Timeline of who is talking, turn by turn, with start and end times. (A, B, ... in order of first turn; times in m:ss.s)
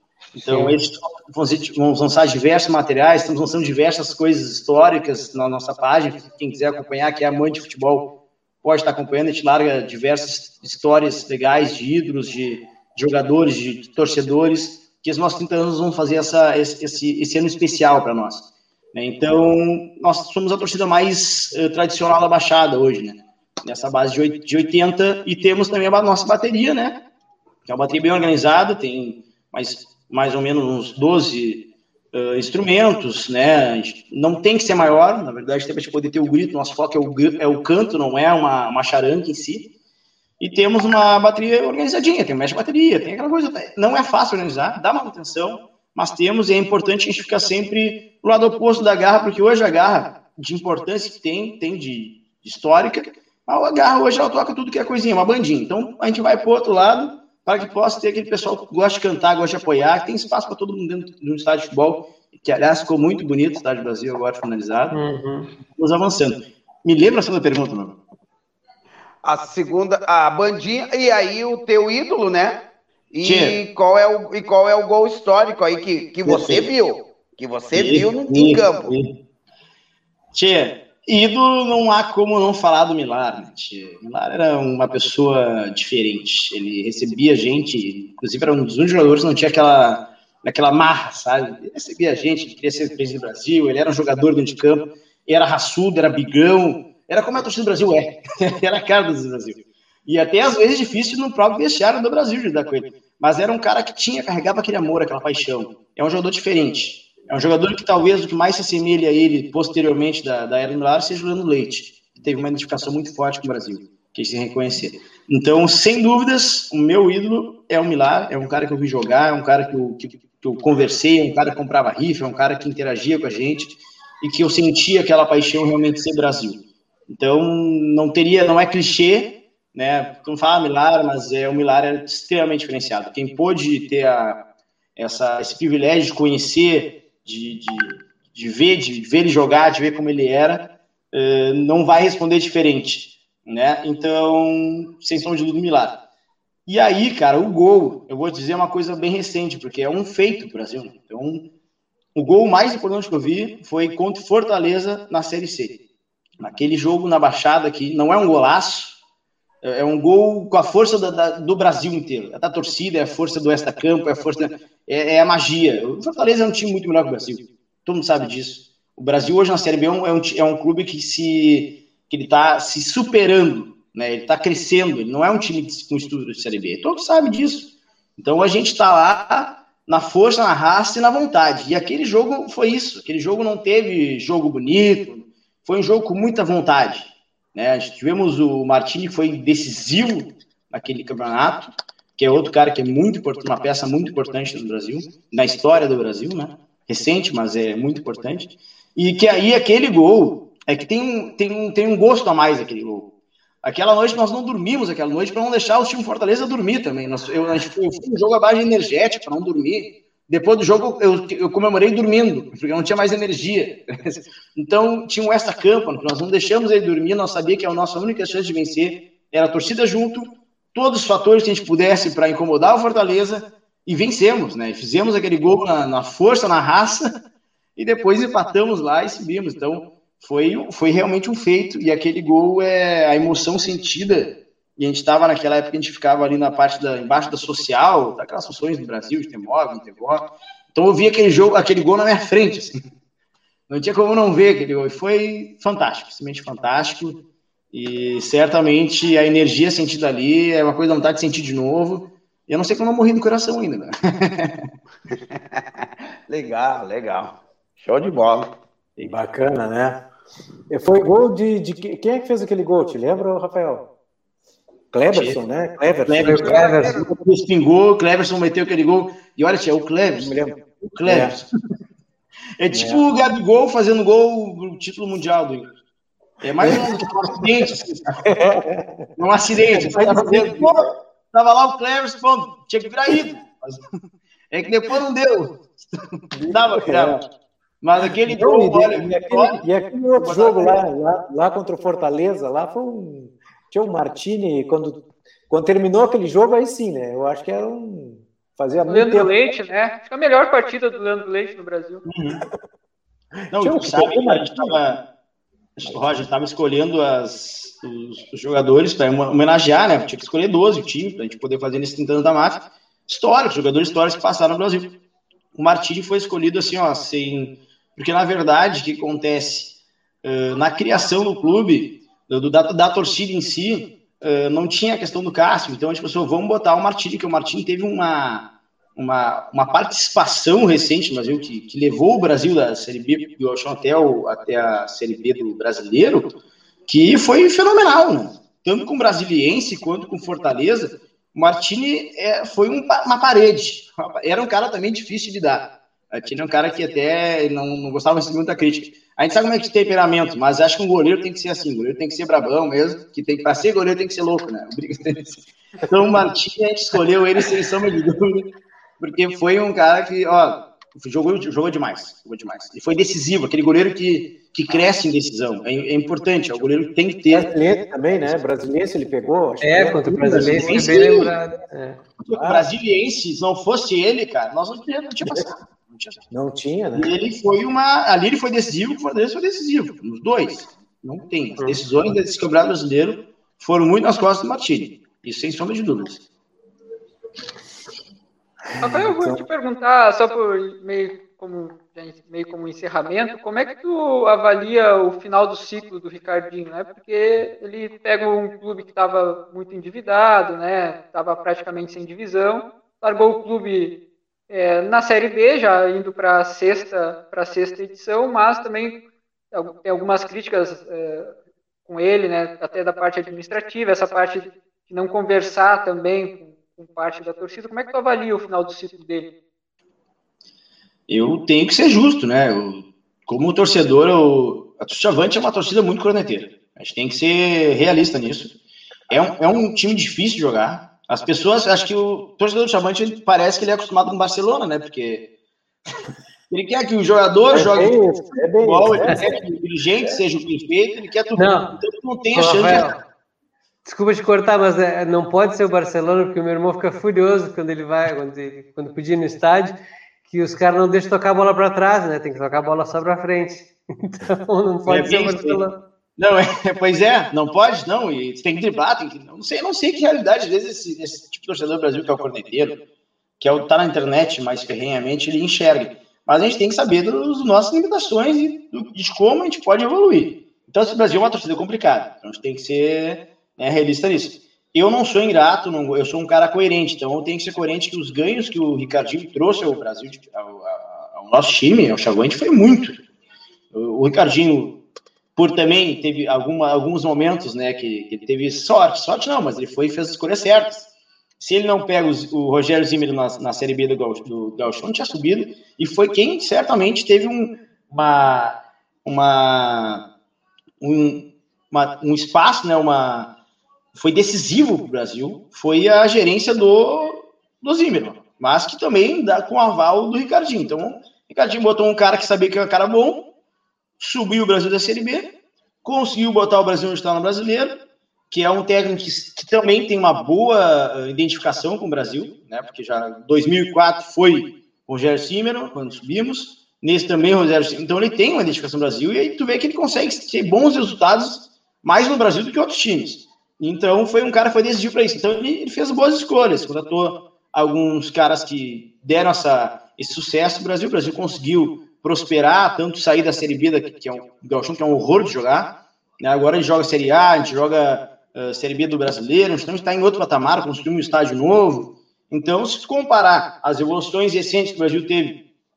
0:00.3-0:08.1 A
0:00.4-0:00.8 B
0:08.6-0:26.9 A
0:27.6-0:31.6 A
0:32.1-0:39.6 A
0:40.4-1:04.9 A
1:04.9-1:05.5 B
1:05.7-1:08.0 A
1:09.2-1:12.6 C
1:13.1-1:18.9 C
1:13.2-1:13.5 A
1:16.2-1:16.7 A
1:17.7-1:19.1 A
1:20.3-2:06.6 A
2:07.1-2:14.4 A
2:15.0-2:25.9 A
2:26.7-2:31.4 A
2:32.1-2:35.7 A
2:36.4-2:39.0 A
2:39.6-3:23.1 A
3:23.6-3:47.1 A
3:47.8-4:02.8 A
4:03.7-4:07.2 A
4:07.7-4:14.5 A
4:15.4-4:18.5 C
4:19.0-4:20.0 D
4:20.7-4:23.8 D
4:24.9-4:26.6 D
4:26.1-4:31.4 A
4:26.2-4:27.0 B
4:26.4-4:27.0 E
4:30.2-4:31.3 D
4:32.6-4:35.7 A
4:32.7-4:33.0 D
4:36.4-4:38.0 A
4:36.6-4:37.0 D
4:38.2-4:39.1 D
4:39.2-4:43.8 A
4:39.6-4:40.7 D
4:44.5-4:47.2 A
4:46.3-4:47.2 D
4:47.8-4:49.6 A
4:48.2-4:59.3 D
4:50.2-4:50.8 A
4:58.9-5:02.0 E
5:02.0-5:02.4 A
5:03.5-5:04.8 D
5:03.5-5:05.0 A
5:05.8-5:14.9 A
5:05.8-5:06.2 D
5:15.5-5:19.7 A
5:20.2-5:28.4 A
5:29.0-5:36.3 A
5:36.9-5:58.4 A
5:59.0-6:07.5 A
6:07.3-6:10.8 D
6:09.6-6:12.0 B
6:10.2-6:11.3 A
6:12.2-6:16.2 A
6:12.4-6:12.7 D
6:16.3-6:17.1 D
6:16.9-6:26.2 A
6:28.8-6:29.4 D
6:28.8-6:43.9 E
6:44.5-6:48.9 E
6:49.5-6:51.3 E
6:51.8-6:59.3 E
7:01.1-7:08.5 A
7:09.1-7:15.2 A
7:16.5-7:18.0 A
7:17.5-7:19.3 D
7:18.6-7:22.9 A
7:21.4-7:21.8 B
7:22.3-7:23.0 B
7:23.8-7:29.8 B
7:30.3-7:35.7 B
7:34.8-7:35.6 A
7:36.2-7:42.8 A
7:43.4-8:03.0 A
8:03.7-8:04.7 A
8:05.4-8:10.8 A
8:11.4-8:20.0 A
8:20.8-8:23.3 A
8:23.9-8:33.2 A
8:34.0-8:35.2 A
8:35.8-8:37.7 A
8:38.3-9:15.4 A